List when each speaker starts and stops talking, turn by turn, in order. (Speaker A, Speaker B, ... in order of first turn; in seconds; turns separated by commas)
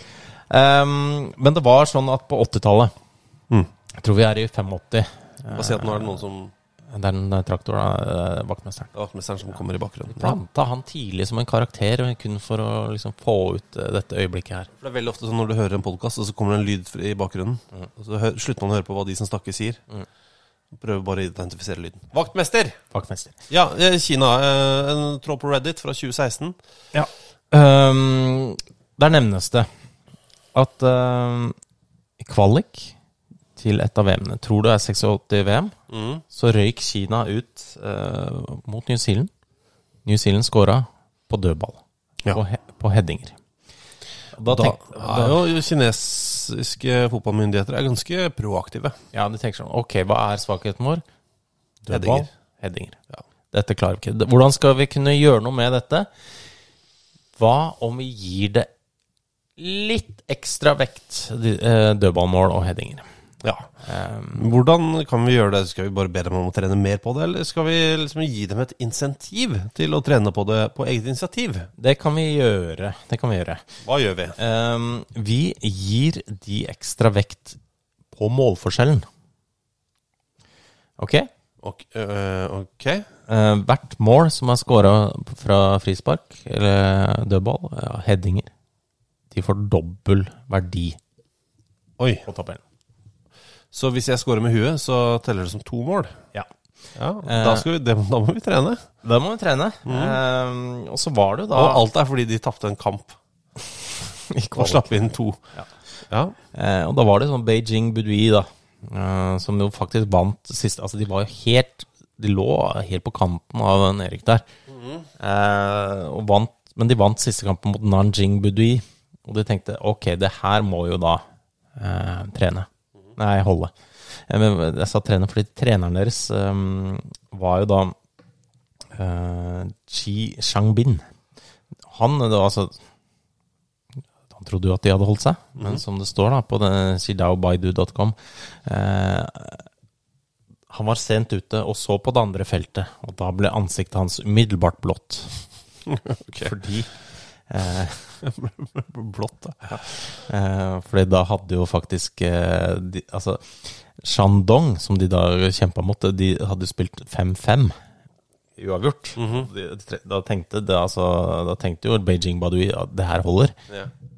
Speaker A: 0.5-2.9, Speaker A: 4.0-6.2, Speaker B: 5.5-6.5, Speaker A: 6.9-8.9, Speaker B: 8.9-10.4, Speaker A: 10.1-14.7, Speaker B: 14.8-19.8, Speaker B: 20.8-22.8, Speaker A: 22.9-23.4, Speaker B: 23.5-26.6, Speaker A: 26.9-29.7, Speaker A: 30.5-31.6, Speaker A: 32.2-32.9, Speaker A: 33.6-35.7, Speaker B: 35.9-36.2, Speaker A: 36.3-39.3, Speaker A: 40.1-43.4, Speaker A: 44.4-45.4, Speaker B: 44.5-49.0, Speaker A: 49.1-51.0, Speaker A: 51.8-53.0, Speaker B: 51.9-52.3, Speaker A: 53.5-56.1, Speaker A: 57.4-58.7, Speaker A: 59.6-63.1, Speaker B: 63.4-63.7, Speaker A: 63.8-64.5, Speaker B: 64.3-71.7, Speaker A: 71.8-73.6, Speaker B: 73.8-74.4, Speaker A: 74.4-77.6, Speaker A: 78.1-79.1, Speaker A: 81.0-81.3, Speaker B: 81.6-83.1, Speaker A: 83.3-88.5, Speaker A: 89.3-91.0, Speaker B: 92.0-92.3, Speaker A: 92.3-92.6, Speaker B: 93.7-96.2, Speaker B: 97.0-98.8, Speaker A: 97.2-97.7, Speaker A: 99.0-101.8, Speaker B: 99.9-100.2, Speaker B: 101.5-103.2, Speaker A: 104.3-105.7, Speaker B: 104.5-105.4, Speaker B: 106.1-106.3, Speaker A: 106.5-114.5, Speaker B: 114.7-115.0, Speaker A: 115.2-121.2, Speaker A: 121.8-128.0, Speaker A: 128.9-131.1, Speaker A: 131.9-132.8, Speaker A: 134.3-139.7, Speaker B: 135.6-135.8, Speaker A: 140.7-145.4, Speaker B: 145.9-146.5, Speaker A: 146.4-146.9, Speaker A: 147.5-148.2, Speaker B: 148.2-149.9, Speaker A: 149.9-157.8, Speaker A: 158.6-163.6, Speaker B: 159.2-159.5